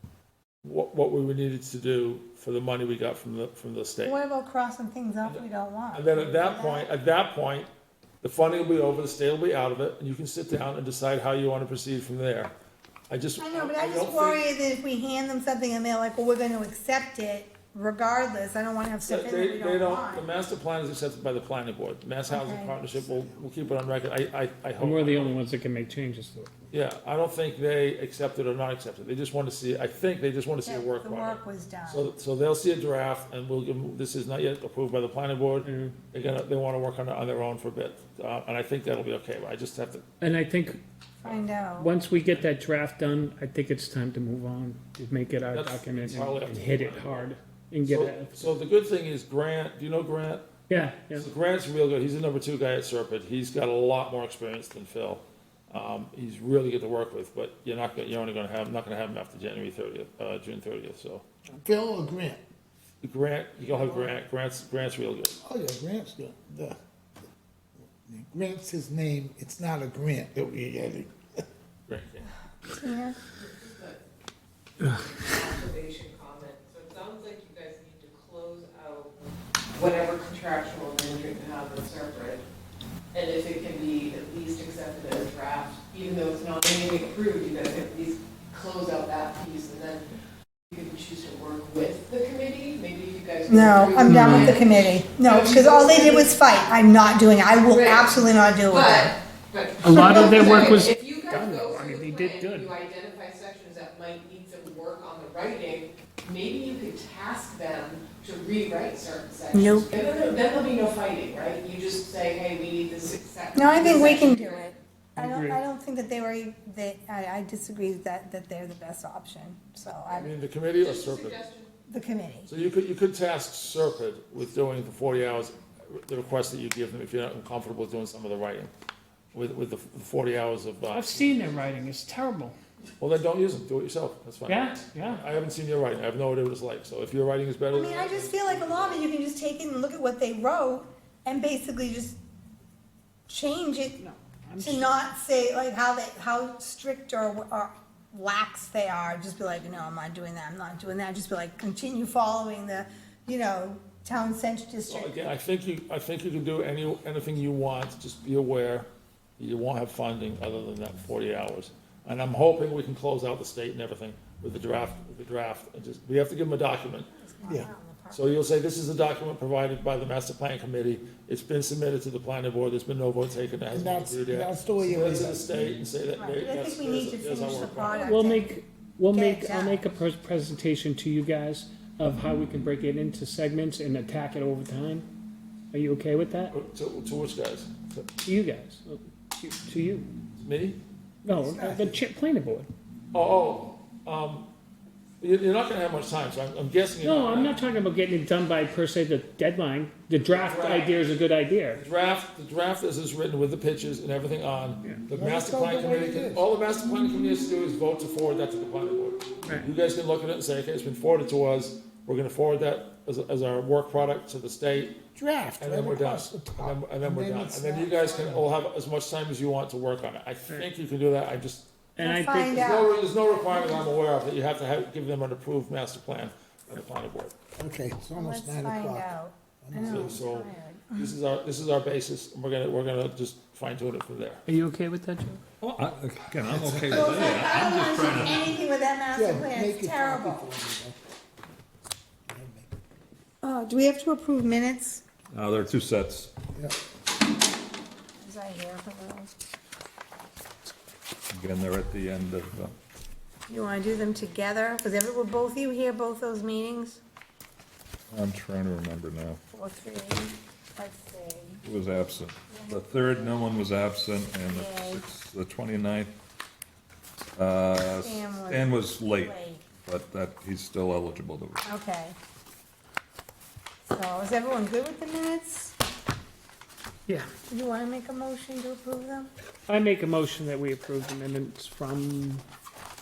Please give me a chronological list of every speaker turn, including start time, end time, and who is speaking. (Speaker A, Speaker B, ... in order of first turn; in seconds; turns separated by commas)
Speaker A: 0.6-4.2, Speaker B: 4.0-6.9, Speaker A: 5.2-7.7, Speaker A: 8.2-12.5, Speaker A: 13.1-14.4, Speaker B: 13.4-20.3, Speaker A: 19.1-25.4, Speaker B: 22.3-22.8, Speaker C: 24.8-26.5, Speaker A: 26.7-40.0, Speaker B: 30.6-32.1, Speaker C: 35.6-36.0, Speaker C: 40.2-40.8, Speaker B: 41.2-42.0, Speaker C: 41.8-48.5, Speaker A: 45.5-50.5, Speaker C: 50.7-51.3, Speaker A: 51.1-61.2, Speaker D: 61.5-62.4, Speaker A: 63.0-65.3, Speaker E: 63.7-64.1, Speaker D: 65.4-66.8, Speaker D: 68.1-71.4, Speaker A: 71.9-72.3, Speaker B: 72.7-73.2, Speaker E: 73.5-74.0, Speaker E: 74.8-79.1, Speaker E: 79.7-82.4, Speaker E: 83.1-90.0, Speaker E: 90.7-96.4, Speaker B: 93.5-99.2, Speaker C: 94.0-94.7, Speaker E: 97.7-114.7, Speaker C: 99.8-102.7, Speaker B: 99.9-100.8, Speaker B: 109.5-109.9, Speaker B: 113.5-120.3, Speaker C: 115.2-115.6, Speaker A: 120.1-121.4, Speaker E: 120.8-121.7, Speaker B: 121.9-122.5, Speaker A: 122.5-128.7, Speaker A: 129.3-131.7, Speaker C: 130.9-132.6, Speaker A: 133.0-139.0, Speaker C: 134.5-135.2, Speaker B: 137.7-142.2, Speaker B: 143.3-144.0, Speaker C: 144.0-145.0, Speaker B: 144.6-155.1, Speaker A: 154.9-167.1, Speaker B: 167.1-168.3, Speaker A: 168.1-178.1, Speaker D: 173.7-175.5, Speaker B: 176.2-178.6, Speaker C: 178.0-185.1, Speaker B: 179.1-179.9, Speaker C: 185.7-186.6, Speaker A: 186.5-188.1, Speaker C: 188.2-190.1, Speaker A: 190.4-190.8, Speaker C: 191.2-192.7, Speaker D: 191.3-192.0, Speaker A: 193.1-194.5, Speaker A: 195.2-197.6, Speaker C: 197.0-201.8, Speaker A: 200.2-201.1, Speaker A: 201.8-215.0, Speaker D: 205.1-206.4, Speaker C: 209.4-209.7, Speaker D: 215.2-218.5, Speaker A: 215.6-221.7, Speaker C: 222.0-222.7, Speaker B: 222.0-222.9, Speaker A: 222.5-227.3, Speaker B: 223.5-223.8, Speaker D: 227.6-229.1, Speaker B: 228.2-231.1, Speaker D: 229.7-230.2, Speaker A: 229.7-234.4, Speaker C: 234.5-235.4, Speaker F: 235.6-238.6, Speaker B: 236.9-240.5, Speaker D: 239.2-241.0, Speaker D: 242.3-242.7, Speaker B: 243.4-245.0, Speaker F: 245.3-246.3, Speaker B: 248.2-249.3, Speaker F: 251.3-252.7, Speaker B: 253.5-257.0, Speaker F: 258.1-259.4, Speaker B: 259.5-261.6, Speaker F: 261.6-266.1, Speaker B: 262.5-263.4, Speaker B: 264.5-265.0, Speaker F: 267.4-271.6, Speaker B: 267.9-269.6, Speaker B: 271.6-272.1, Speaker B: 273.9-275.7, Speaker B: 277.5-279.3, Speaker C: 279.7-282.4